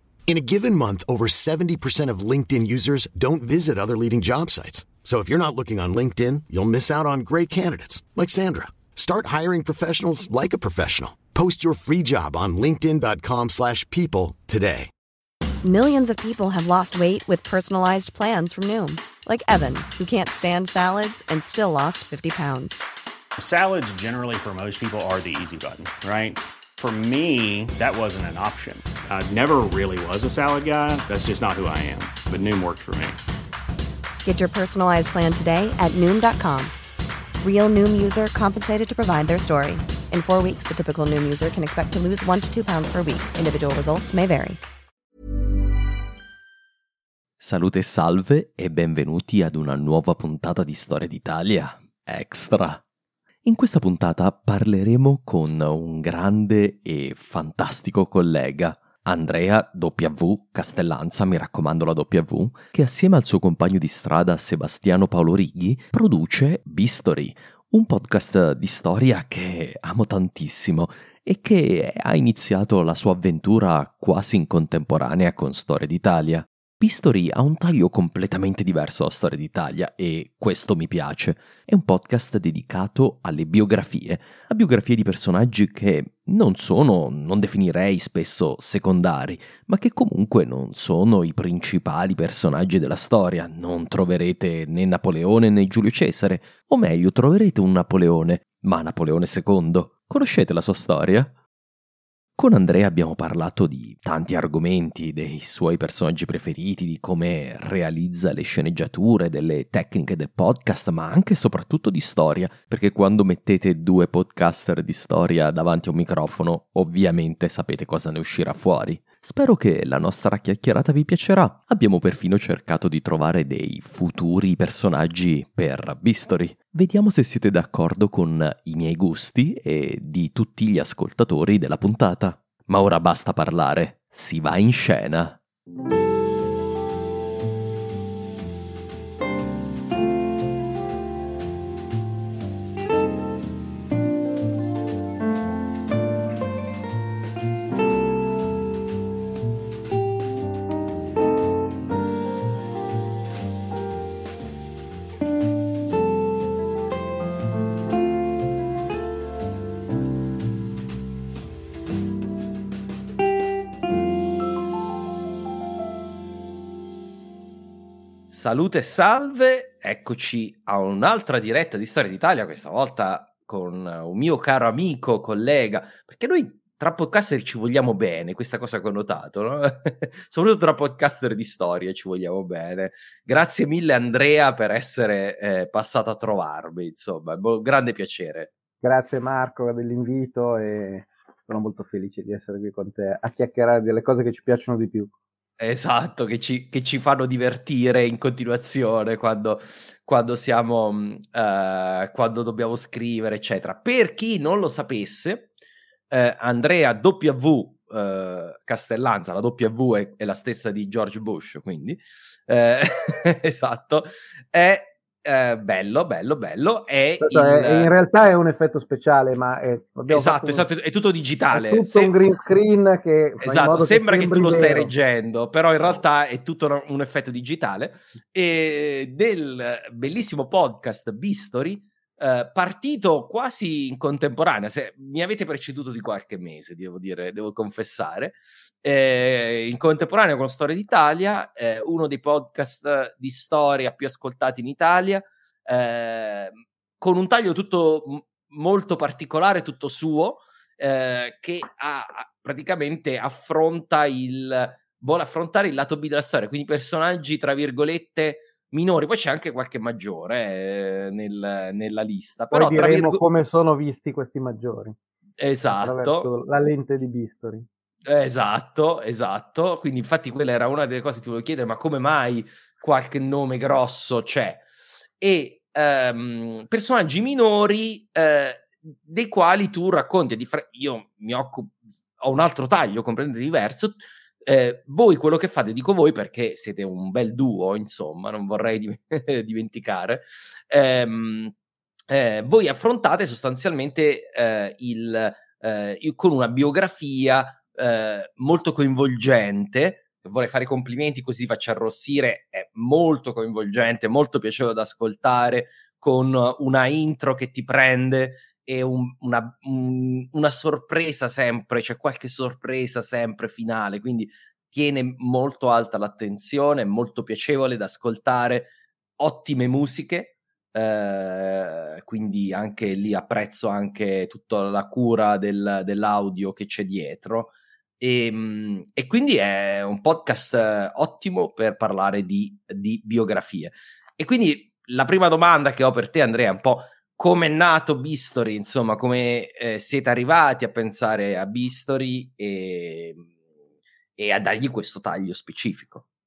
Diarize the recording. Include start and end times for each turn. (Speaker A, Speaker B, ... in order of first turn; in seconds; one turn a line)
Speaker A: 0.3-14.9
Speaker B: 15.6-22.8
Speaker C: 23.4-33.2
Speaker B: 34.2-36.7
Speaker B: 37.4-44.6
Speaker D: 47.4-52.8
Speaker D: 53.4-101.3
Speaker D: 102.4-135.4
Speaker D: 168.3-188.5
Speaker E: 188.8-195.1
Speaker D: 195.6-205.5
Speaker D: 206.1-217.9
Speaker E: 217.2-220.7
Speaker D: 220.1-222.1
Speaker E: 221.5-224.9
Speaker D: 223.4-263.2
Speaker E: 262.5-264.9
Speaker D: 265.4-266.3
Speaker E: 265.7-267.7
Speaker D: 268.1-274.6
Speaker D: 275.2-291.5
Speaker D: 292.1-343.3
Speaker D: 344.2-346.0